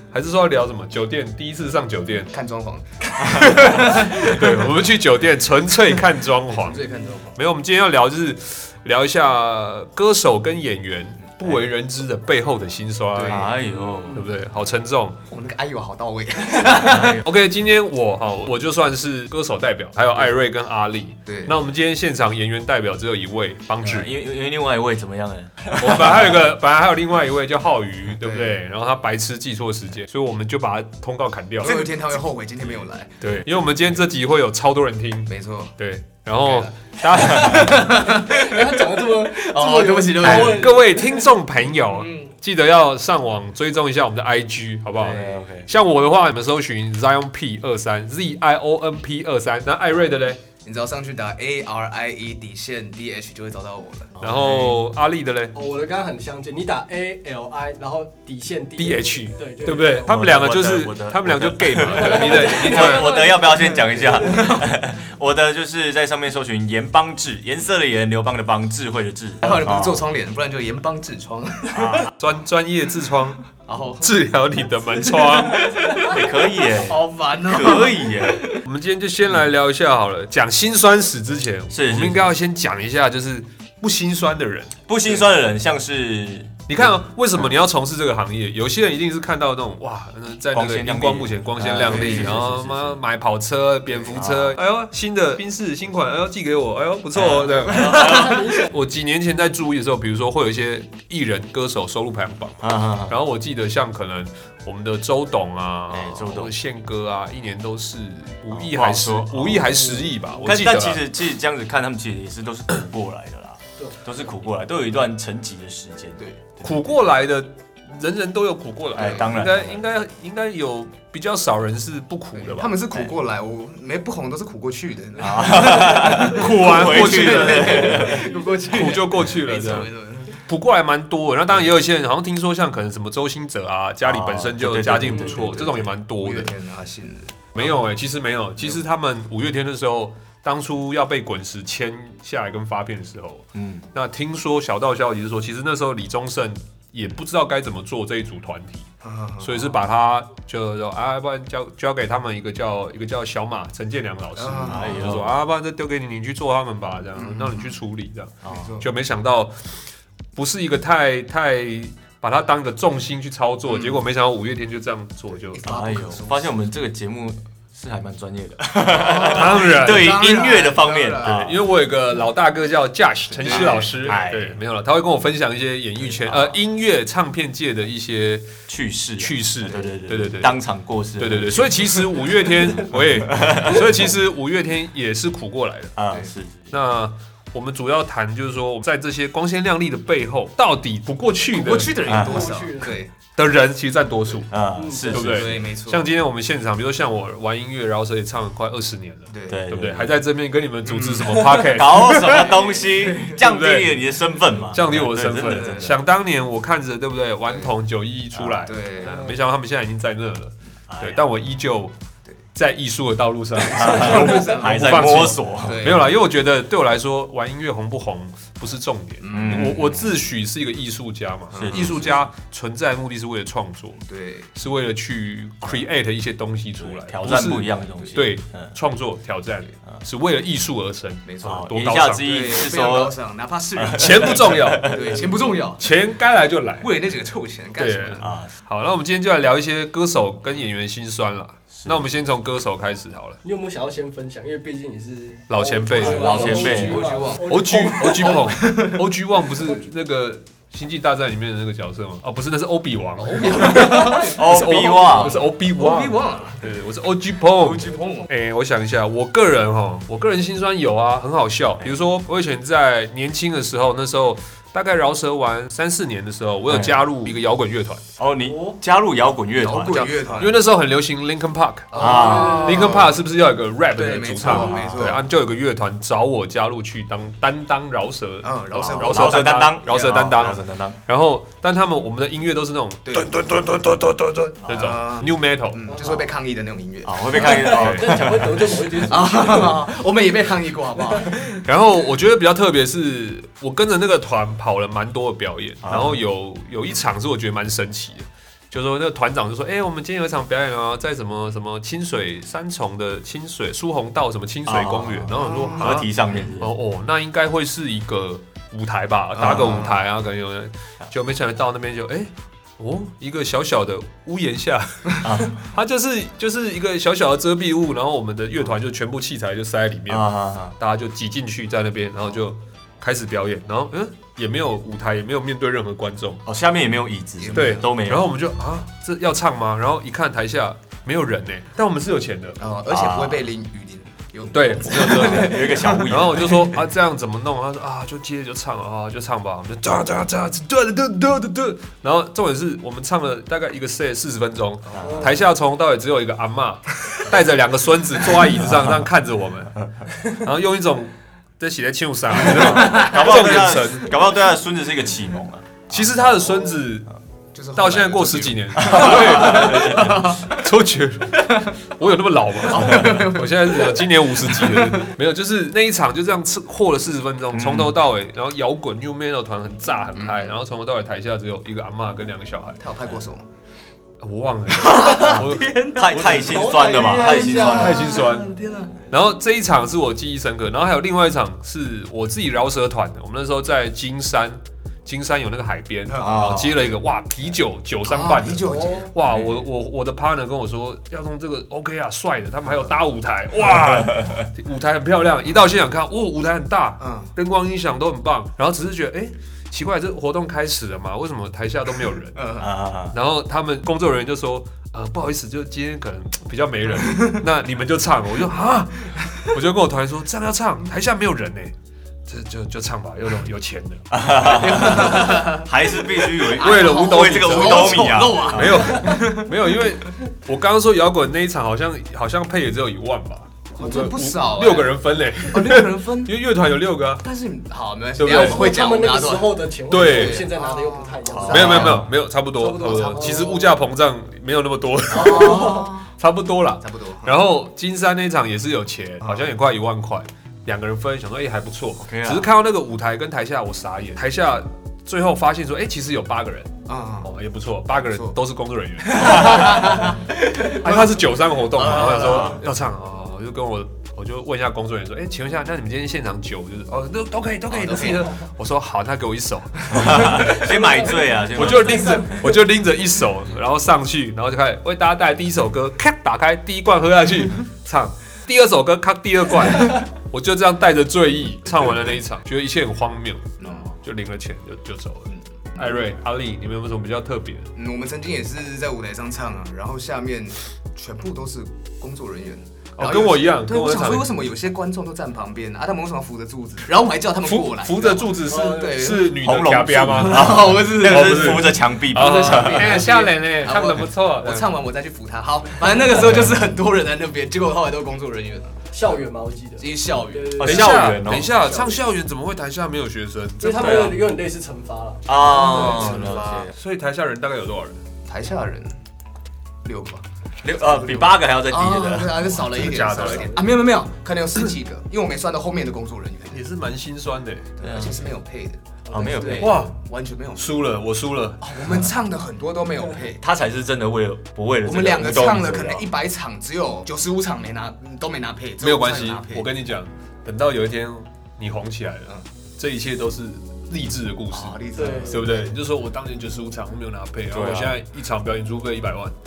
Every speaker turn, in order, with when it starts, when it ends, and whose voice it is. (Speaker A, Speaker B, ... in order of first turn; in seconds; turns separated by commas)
Speaker A: 0.1-2.3, Speaker B: 2.3-4.4, Speaker A: 3.3-6.8, Speaker C: 4.2-4.5, Speaker B: 5.9-7.4, Speaker A: 7.3-13.5, Speaker B: 13.1-14.2, Speaker C: 13.3-14.2, Speaker A: 14.1-15.2, Speaker B: 15.3-17.2, Speaker C: 16.9-17.2, Speaker A: 17.2-24.1, Speaker B: 21.2-21.5, Speaker C: 23.8-26.4, Speaker A: 25.7-31.9, Speaker B: 28.2-28.6, Speaker B: 31.6-33.2, Speaker A: 33.2-37.9, Speaker B: 35.3-35.7, Speaker B: 36.4-40.8, Speaker D: 38.0-41.2, Speaker A: 40.2-50.4, Speaker B: 41.8-42.3, Speaker C: 45.0-45.7, Speaker B: 50.6-54.2, Speaker C: 54.1-54.8, Speaker A: 54.2-55.5, Speaker D: 55.5-60.1, Speaker A: 58.8-63.1, Speaker C: 60.0-70.0, Speaker D: 61.9-64.6, Speaker B: 64.1-64.7, Speaker B: 69.4-72.1, Speaker C: 71.7-72.1, Speaker A: 72.2-73.4, Speaker B: 73.6-74.1, Speaker A: 74.0-75.7, Speaker B: 75.0-78.5, Speaker C: 75.9-78.5, Speaker A: 78.6-84.7, Speaker C: 81.7-82.3, Speaker C: 84.9-86.8, Speaker A: 86.7-111.0, Speaker C: 90.5-93.0, Speaker B: 91.9-92.4, Speaker C: 94.1-94.5, Speaker C: 97.1-98.4, Speaker B: 97.7-98.3, Speaker D: 98.0-98.6, Speaker C: 102.6-103.2, Speaker C: 105.9-106.5, Speaker C: 108.5-116.8, Speaker A: 116.6-122.7, Speaker C: 118.9-119.8, Speaker B: 122.3-130.4, Speaker C: 125.2-128.3, Speaker A: 126.2-128.2, Speaker A: 128.7-136.5, Speaker C: 134.0-135.7, Speaker B: 135.2-137.6, Speaker A: 137.5-148.9, Speaker C: 143.5-143.9, Speaker B: 149.0-149.8, Speaker A: 149.4-159.5, Speaker B: 154.3-155.0, Speaker C: 154.7-155.3, Speaker B: 157.2-157.6, Speaker C: 158.4-158.8, Speaker B: 158.4-158.9, Speaker A: 160.3-165.6, Speaker B: 165.3-166.6, Speaker C: 165.6-171.7, Speaker B: 168.9-171.4, Speaker A: 169.3-170.3, Speaker A: 171.2-178.5, Speaker B: 173.3-174.2, Speaker C: 173.5-174.6, Speaker C: 176.1-176.5, Speaker C: 178.7-182.3, Speaker A: 179.2-180.5, Speaker A: 181.2-185.9, Speaker C: 182.9-184.1, Speaker C: 186.0-186.7, Speaker A: 186.7-192.1, Speaker B: 191.5-193.1, Speaker C: 192.1-192.5, Speaker D: 192.2-193.0, Speaker A: 193.3-194.5, Speaker C: 194.5-195.6, Speaker D: 194.7-195.2, Speaker B: 195.1-196.1, Speaker A: 195.1-202.5, Speaker B: 199.3-199.6, Speaker C: 199.5-200.1, Speaker B: 200.8-201.4, Speaker C: 201.4-205.9, Speaker B: 202.3-203.4, Speaker A: 203.3-203.9, Speaker A: 204.7-211.9, Speaker B: 205.5-205.9, Speaker C: 208.3-208.6, Speaker B: 208.7-209.3, Speaker D: 209.1-209.3, Speaker C: 210.9-211.2, Speaker A: 212.5-224.0, Speaker C: 213.7-215.8, Speaker B: 213.7-216.1, Speaker B: 219.2-219.8, Speaker C: 219.3-220.2, Speaker B: 221.5-222.1, Speaker C: 221.6-222.2, Speaker B: 224.1-224.5, Speaker A: 224.5-232.3, Speaker C: 226.8-228.7, Speaker B: 231.2-235.9, Speaker C: 231.4-233.1, Speaker C: 233.8-235.3, Speaker A: 233.9-235.0, Speaker A: 235.8-236.9, Speaker B: 236.8-238.3, Speaker A: 237.8-243.4, Speaker C: 238.2-238.5, Speaker C: 241.8-242.0, Speaker D: 243.4-248.5, Speaker A: 245.5-268.0, Speaker C: 246.0-247.1, Speaker B: 246.1-249.1, Speaker B: 253.3-256.6, Speaker C: 253.5-255.4, Speaker B: 257.5-258.3, Speaker C: 266.7-267.0, Speaker C: 268.2-270.2, Speaker D: 268.4-268.8, Speaker B: 269.6-270.6, Speaker A: 270.4-285.8, Speaker B: 271.9-273.2, Speaker C: 271.9-272.8, Speaker D: 271.9-272.9, Speaker B: 273.9-275.2, Speaker C: 274.4-275.2, Speaker B: 278.4-279.4, Speaker C: 278.9-281.0, Speaker B: 283.0-283.3, Speaker C: 284.6-285.0, Speaker B: 284.7-287.7, Speaker D: 285.9-286.3, Speaker C: 287.0-289.1, Speaker D: 287.3-289.8, Speaker A: 287.7-288.2, Speaker B: 289.1-291.6, Speaker A: 291.6-326.4, Speaker C: 295.8-296.2, Speaker C: 304.7-306.7, Speaker B: 305.3-306.0, Speaker B: 309.4-310.0, Speaker C: 309.4-309.9, Speaker C: 315.2-315.6, Speaker C: 320.1-320.7, Speaker C: 326.4-328.3, Speaker B: 327.4-327.8, Speaker A: 327.5-332.6, Speaker B: 332.6-336.2, Speaker C: 332.9-333.5, Speaker A: 334.5-354.1, Speaker C: 334.9-336.8, Speaker C: 344.9-345.4, Speaker D: 345.0-345.4, Speaker C: 352.4-356.5, Speaker B: 352.7-353.1, Speaker A: 355.9-357.1, Speaker B: 357.5-360.5, Speaker A: 357.7-372.8, Speaker C: 358.8-360.3, Speaker B: 361.4-361.7, Speaker B: 362.5-365.1, Speaker C: 367.5-367.9, Speaker B: 370.1-370.5, Speaker B: 372.8-373.4, Speaker A: 374.2-376.6, Speaker C: 374.8-378.1, Speaker B: 374.8-379.0, Speaker D: 376.4-378.2, Speaker A: 377.6-378.5, Speaker A: 379.1-402.5, Speaker B: 386.1-386.4, Speaker C: 386.2-386.8, Speaker B: 388.0-389.1, Speaker C: 389.3-389.6, Speaker C: 393.7-394.5, Speaker B: 397.0-397.3, Speaker B: 402.3-402.7, Speaker C: 402.6-403.1, Speaker A: 403.1-411.7, Speaker B: 407.1-407.4, Speaker A: 412.3-414.2, Speaker C: 414.1-419.0, Speaker B: 414.4-419.9, Speaker A: 414.8-415.4, Speaker A: 416.6-427.2, Speaker B: 423.8-426.3, Speaker B: 427.2-432.1, Speaker A: 428.1-428.7, Speaker D: 428.2-432.0, Speaker A: 429.9-430.4, Speaker C: 431.3-432.0, Speaker A: 431.5-446.7, Speaker D: 432.6-433.7, Speaker B: 432.6-433.6, Speaker B: 435.1-436.1, Speaker D: 435.2-435.9, Speaker B: 436.8-437.3, Speaker B: 439.2-439.5, Speaker C: 442.0-442.5, Speaker B: 446.9-447.3, Speaker A: 447.2-460.6, Speaker B: 449.1-452.6, Speaker C: 452.0-452.6, Speaker B: 457.7-458.4, Speaker B: 459.9-460.6, Speaker C: 459.9-462.4, Speaker D: 460.6-462.3, Speaker A: 461.5-477.7, Speaker B: 473.6-473.9, Speaker B: 475.3-476.0, Speaker B: 477.8-489.5, Speaker A: 483.0-484.3, Speaker A: 487.4-494.7, Speaker D: 488.4-489.1, Speaker C: 489.4-493.1, Speaker B: 490.1-499.2, Speaker D: 498.9-502.0, Speaker B: 499.8-500.6, Speaker C: 500.6-501.5, Speaker A: 500.6-504.2, Speaker D: 503.6-506.4, Speaker C: 503.8-504.2, Speaker C: 505.3-506.7, Speaker B: 505.5-506.7, Speaker A: 505.5-508.0, Speaker B: 508.2-509.0, Speaker B: 509.8-510.2, Speaker C: 510.6-512.5, Speaker B: 510.8-516.6, Speaker A: 512.6-513.6, Speaker A: 516.5-517.7, Speaker B: 517.8-520.8, Speaker C: 517.8-518.3, Speaker C: 519.1-519.9, Speaker A: 519.6-519.9, Speaker A: 520.6-521.8, Speaker B: 521.6-523.4, Speaker C: 523.4-526.0, Speaker B: 524.8-529.7, Speaker A: 528.8-539.3, Speaker B: 534.5-535.7, Speaker D: 534.9-535.4, Speaker C: 537.5-538.0